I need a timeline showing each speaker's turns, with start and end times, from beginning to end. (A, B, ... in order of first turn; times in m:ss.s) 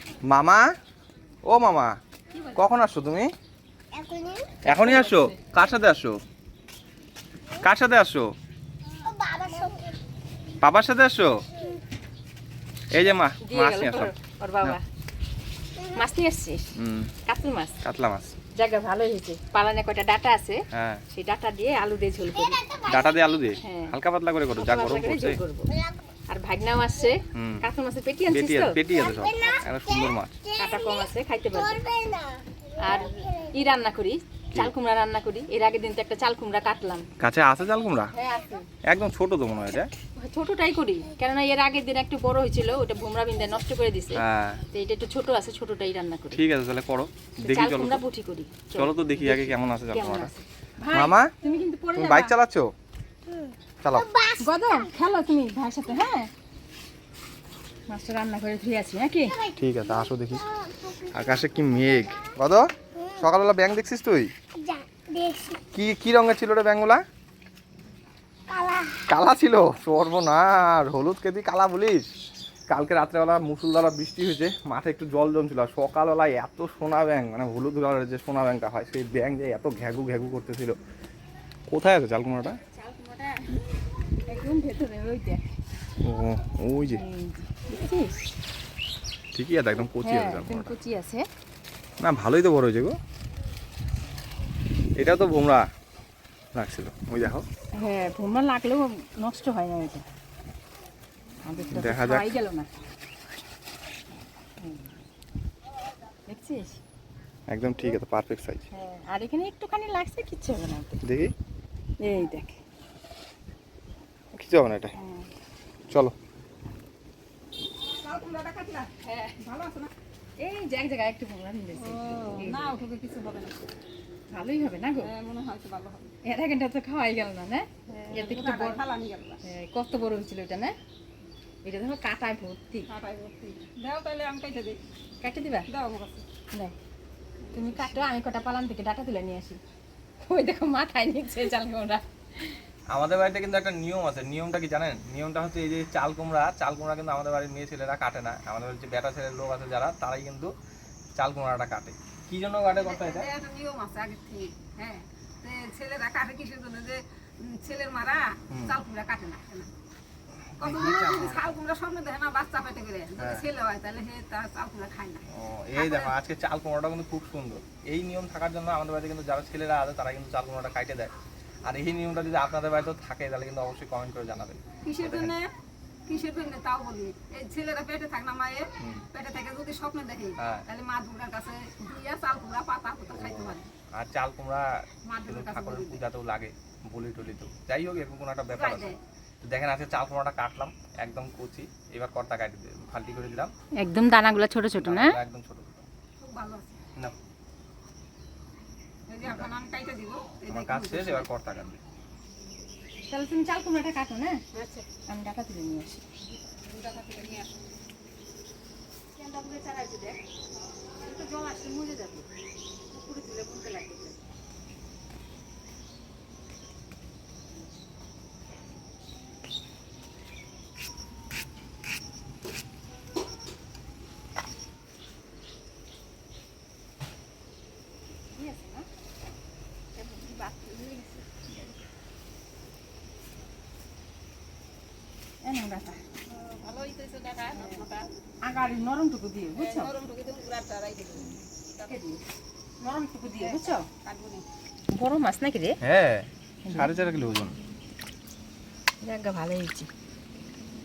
0:00.3-0:00.7 A
0:01.5-0:02.0 A
0:02.3-0:02.6 B
0:02.6-0:03.3 A
0:04.0-0:04.5 C
0:04.6-0:06.2 A
0:04.6-0:05.4 B
0:07.6-0:08.3 A
0:09.1-0:09.9 C
0:10.6-0:11.3 A
0:12.9-0:14.8 A
0:13.4-0:14.8 B
0:15.9-0:16.7 B
0:16.8-0:17.1 A
0:17.3-0:17.8 B
0:17.8-0:18.3 A
0:18.6-0:22.7 B
0:20.7-0:21.0 A
0:22.8-0:25.4 A
0:23.6-0:23.9 B
0:24.6-0:25.7 B
0:26.3-0:28.8 B
0:27.4-0:27.6 A
0:28.3-0:30.4 A
0:30.6-0:31.8 B
0:32.8-0:37.1 B
0:37.2-0:38.1 A
0:38.2-0:38.7 B
0:38.9-0:39.9 A
0:40.2-0:46.4 B
0:44.1-0:44.6 A
0:46.3-0:48.0 A
0:47.4-0:52.4 B
0:48.8-0:50.3 A
0:50.9-0:51.3 A
0:52.0-0:52.7 A
0:53.8-0:54.2 A
0:54.4-0:56.3 B
0:57.9-0:59.4 B
0:59.5-1:04.3 A
1:04.7-1:05.6 C
1:05.7-1:07.0 A
1:08.5-1:08.9 C
1:09.0-1:12.1 A
1:12.7-1:20.8 A
1:21.7-1:22.6 A
1:22.7-1:23.6 B
1:24.3-1:25.4 B
1:26.0-1:27.0 A
1:26.8-1:28.2 B
1:29.4-1:30.7 A
1:29.8-1:31.2 B
1:32.0-1:33.0 A
1:35.0-1:35.7 A
1:36.6-1:37.4 A
1:37.8-1:40.1 B
1:41.4-1:42.7 B
1:41.7-1:42.3 A
1:44.6-1:45.0 B
1:46.3-1:46.8 B
1:47.5-1:48.6 A
1:48.7-1:51.0 B
1:51.0-1:51.3 A
1:52.0-1:52.6 B
1:54.3-1:54.9 A
1:55.0-1:55.3 B
1:58.0-1:59.9 D
2:00.4-2:02.8 B
2:01.8-2:03.7 D
2:04.3-2:05.1 B
2:05.0-2:06.1 D
2:06.2-2:08.8 B
2:08.0-2:09.4 D
2:09.4-2:10.7 B
2:11.6-2:12.9 B
2:12.9-2:14.8 D
2:15.2-2:15.7 B
2:15.7-2:16.2 D
2:17.5-2:18.0 D
2:17.5-2:19.6 B
2:20.2-2:22.5 B
2:22.9-2:30.5 A
2:31.2-2:33.3 A
2:32.8-2:39.7 D
2:38.5-2:38.8 A
2:40.5-2:41.6 A
2:40.6-2:45.2 D
2:43.2-2:43.4 A
2:45.3-2:51.1 A
2:45.8-2:46.1 D
2:51.6-2:55.4 A
2:54.8-2:55.5 D
2:56.1-3:03.7 D
3:00.4-3:00.6 A
3:03.1-3:04.7 A
3:05.1-3:06.0 D
3:05.2-3:13.5 A
3:08.5-3:09.0 D
3:13.8-3:15.2 B
3:14.8-3:15.9 A
3:16.2-3:16.8 D
3:19.1-3:21.3 D
3:20.5-3:21.8 A
3:23.1-3:24.4 B
3:24.5-3:24.9 D
3:25.1-3:26.0 B
3:26.5-3:27.5 D
3:29.2-3:30.2 B
3:31.0-3:32.3 B
3:32.9-3:34.2 B
3:48.3-3:48.9 B
3:50.0-3:51.7 B
3:55.4-3:56.0 B
3:56.3-3:58.1 D
3:58.4-3:59.9 B
3:59.6-4:02.0 D
4:01.9-4:02.2 B
4:02.8-4:03.9 B
4:03.4-4:04.4 D
4:04.9-4:05.8 B
4:05.8-4:07.5 A
4:06.6-4:06.9 B
4:09.0-4:09.9 B